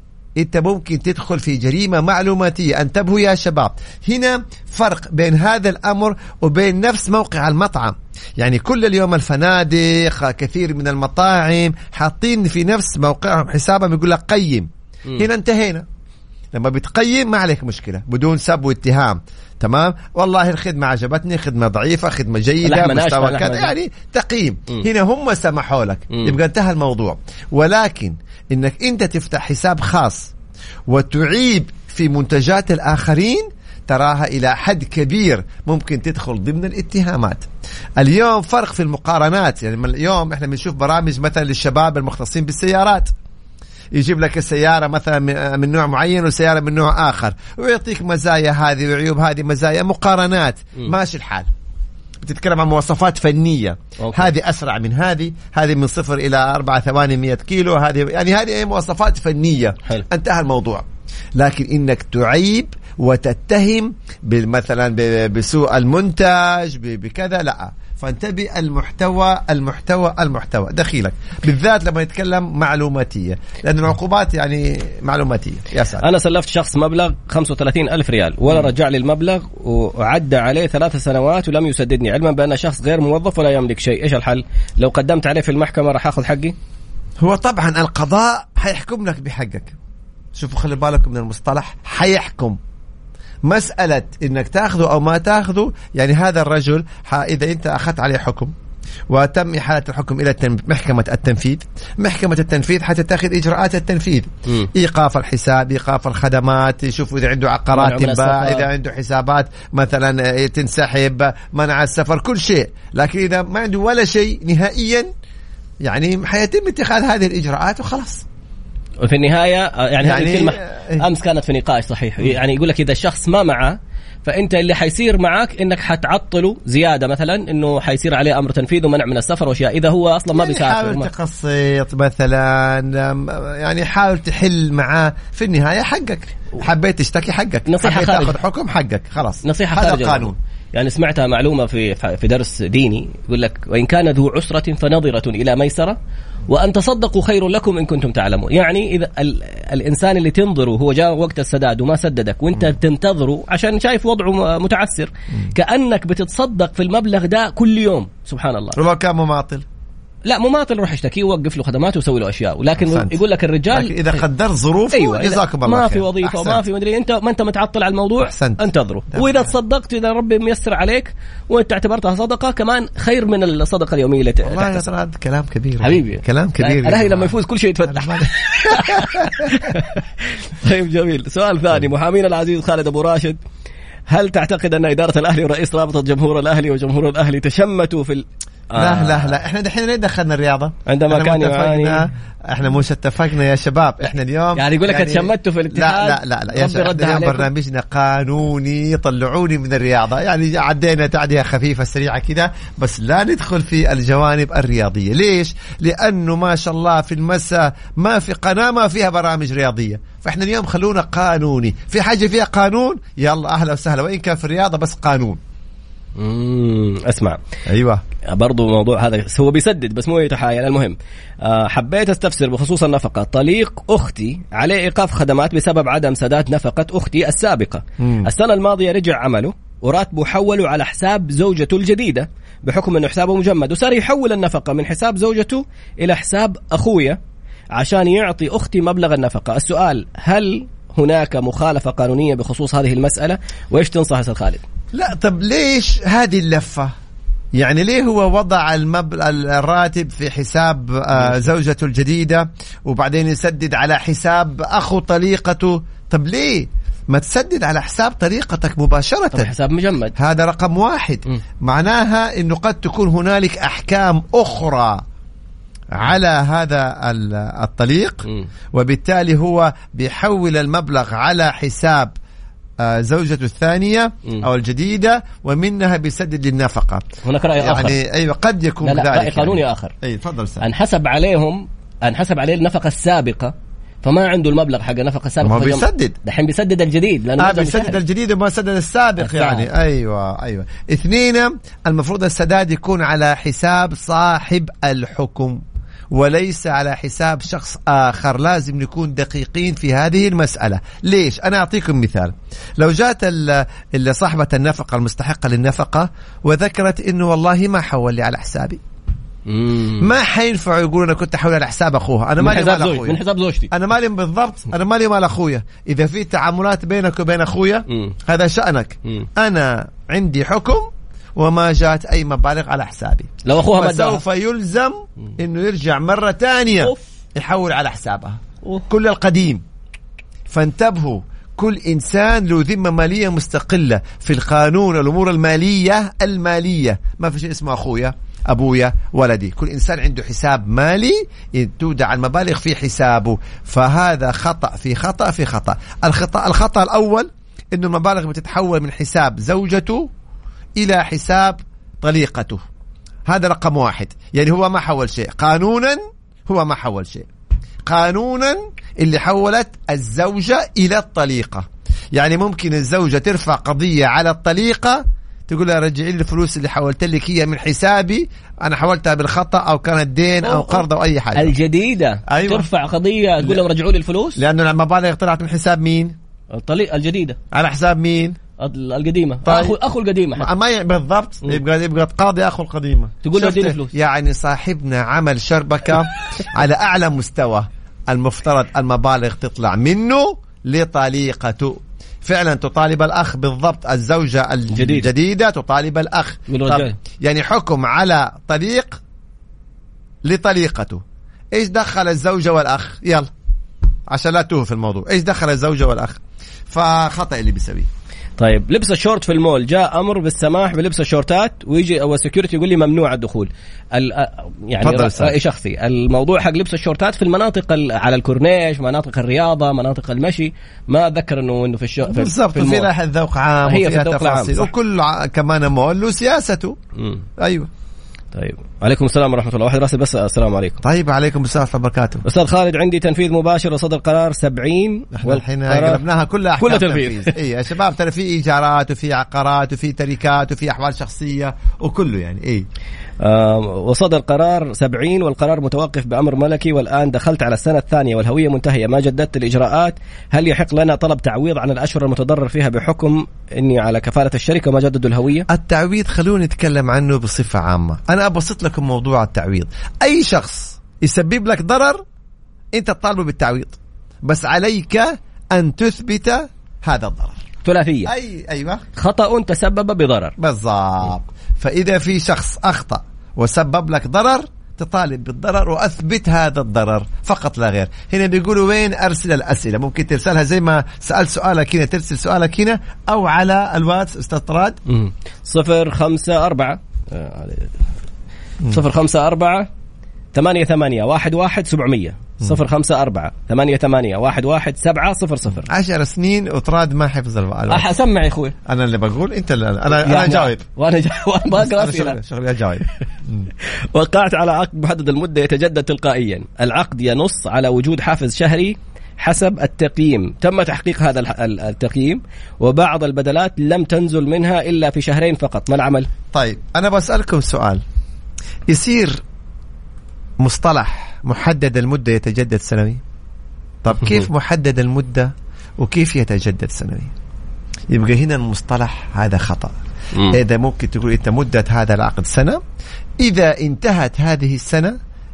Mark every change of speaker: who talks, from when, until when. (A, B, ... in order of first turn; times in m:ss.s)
0:00.4-0:15.8 A
0:16.5-0:30.3 A
0:22.6-0:23.7 B
0:30.9-0:43.1 A
0:43.9-0:51.5 A
0:52.2-1:16.0 A
0:54.0-0:54.3 B
1:16.0-1:26.6 B
1:27.2-1:29.7 A
1:30.4-1:32.6 A
1:33.5-1:38.5 A
1:39.1-1:55.1 A
1:47.7-1:48.7 B
1:55.8-1:58.2 A
1:59.0-2:11.1 B
2:00.0-2:01.0 A
2:10.3-2:20.4 A
2:17.7-2:18.4 B
2:19.4-2:26.0 B
2:26.5-2:38.8 B
2:38.8-2:39.6 A
2:40.3-2:44.2 B
2:42.8-2:46.6 A
2:44.9-2:54.9 B
2:48.2-2:49.5 A
2:54.4-2:57.4 A
2:55.8-3:03.4 B
2:57.9-2:59.7 A
3:04.1-3:09.4 B
3:08.8-3:35.4 A
3:10.9-3:12.0 B
3:14.6-3:17.5 B
3:36.2-3:37.4 B
3:37.7-3:38.0 A
3:38.3-3:57.2 B
3:48.0-3:48.3 A
3:57.8-4:04.6 B
4:04.9-4:06.9 A
4:07.6-4:19.5 A
4:11.2-4:11.5 B
4:19.3-4:20.1 B
4:20.2-4:25.0 A
4:25.9-4:32.1 A
4:32.8-4:37.1 A
4:37.2-4:38.0 B
4:37.6-4:40.6 A
4:38.8-4:39.9 B
4:40.6-4:48.0 B
4:45.4-4:46.2 A
4:47.4-4:55.6 A
4:49.2-4:49.7 B
4:56.1-5:08.8 A
5:09.5-5:10.1 B
5:10.0-5:13.2 A
5:12.4-5:13.7 B
5:13.7-5:29.6 A
5:23.4-5:24.2 B
5:30.5-5:50.1 A
5:50.8-5:52.6 A
5:53.3-5:57.3 A
5:57.9-6:11.6 A
6:10.4-6:14.4 B
6:12.3-6:12.7 A
6:14.4-6:16.2 A
6:16.5-6:17.4 B
6:17.5-6:18.4 A
6:18.6-6:20.5 B
6:19.4-6:19.8 A
6:20.4-6:39.0 A
6:23.2-6:23.9 B
6:34.7-6:35.1 B
6:36.5-6:37.0 B
6:40.2-6:41.0 A
6:41.5-6:43.3 A
6:44.1-6:47.9 A
6:48.4-7:02.9 B
6:54.8-6:55.4 A
7:02.0-7:06.8 A
7:03.7-7:04.7 B
7:07.0-7:07.2 B
7:07.4-7:07.7 A
7:08.3-7:10.8 B
7:10.8-7:12.2 A
7:12.2-7:16.0 B
7:15.1-7:22.7 A
7:16.6-7:17.3 B
7:23.2-7:35.5 B
7:35.5-7:42.0 A
7:42.7-7:47.4 A
7:47.6-7:48.1 B
7:48.0-7:48.8 A
7:49.0-7:50.4 B
7:50.4-8:04.8 A
8:04.9-8:07.8 B
8:08.7-8:09.7 B
8:10.3-8:15.7 B
8:15.7-8:17.9 A
8:17.7-8:18.6 B
8:18.6-8:20.6 A
8:20.0-8:22.2 B
8:21.5-8:23.5 A
8:23.9-8:36.1 B
8:36.3-8:37.8 A
8:38.7-8:39.2 A
8:40.4-8:43.0 A
8:43.8-8:47.1 A
8:47.9-8:49.8 A
8:50.3-8:52.6 A
8:53.2-8:55.0 A